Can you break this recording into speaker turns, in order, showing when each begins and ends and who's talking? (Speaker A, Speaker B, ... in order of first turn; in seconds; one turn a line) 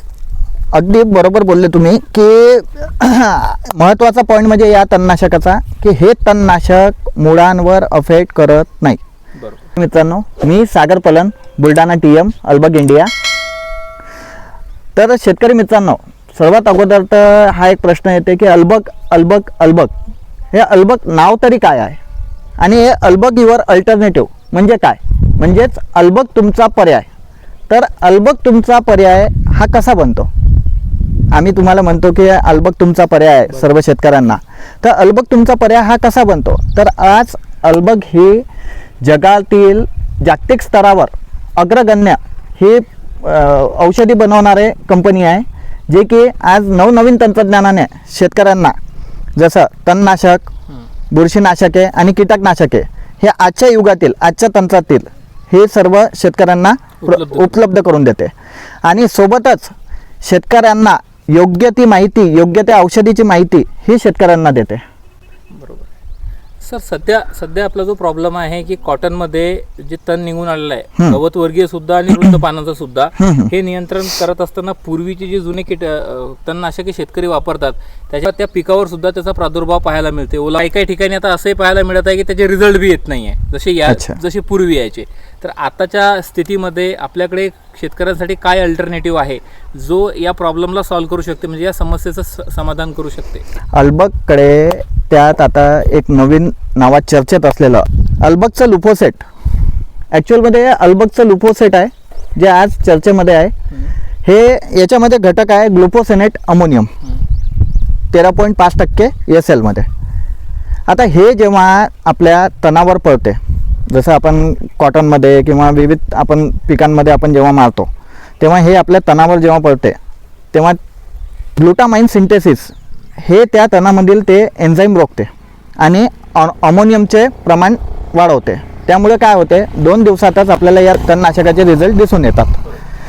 Speaker A: 0.7-9.0
Speaker B: 9.4-9.7
Speaker A: 9.8-13.1
Speaker A: 15.0-19.9
Speaker A: 20.5-22.0
Speaker A: 22.6-27.1
Speaker A: 27.7-30.3
Speaker A: 31.3-38.5
Speaker A: 39.0-48.8
Speaker A: 49.4-50.5
Speaker A: 51.1-58.3
Speaker B: 57.0-57.6
Speaker A: 58.8-64.8
Speaker B: 65.5-65.9
Speaker B: 66.6-93.5
Speaker A: 73.2-73.5
Speaker A: 83.9-84.2
Speaker A: 93.7-99.2
Speaker A: 100.1-103.5
Speaker A: 104.2-106.9
Speaker A: 108.1-109.9
Speaker A: 110.9-113.4
Speaker A: 113.9-120.0
Speaker A: 120.5-120.8
Speaker A: 121.6-132.6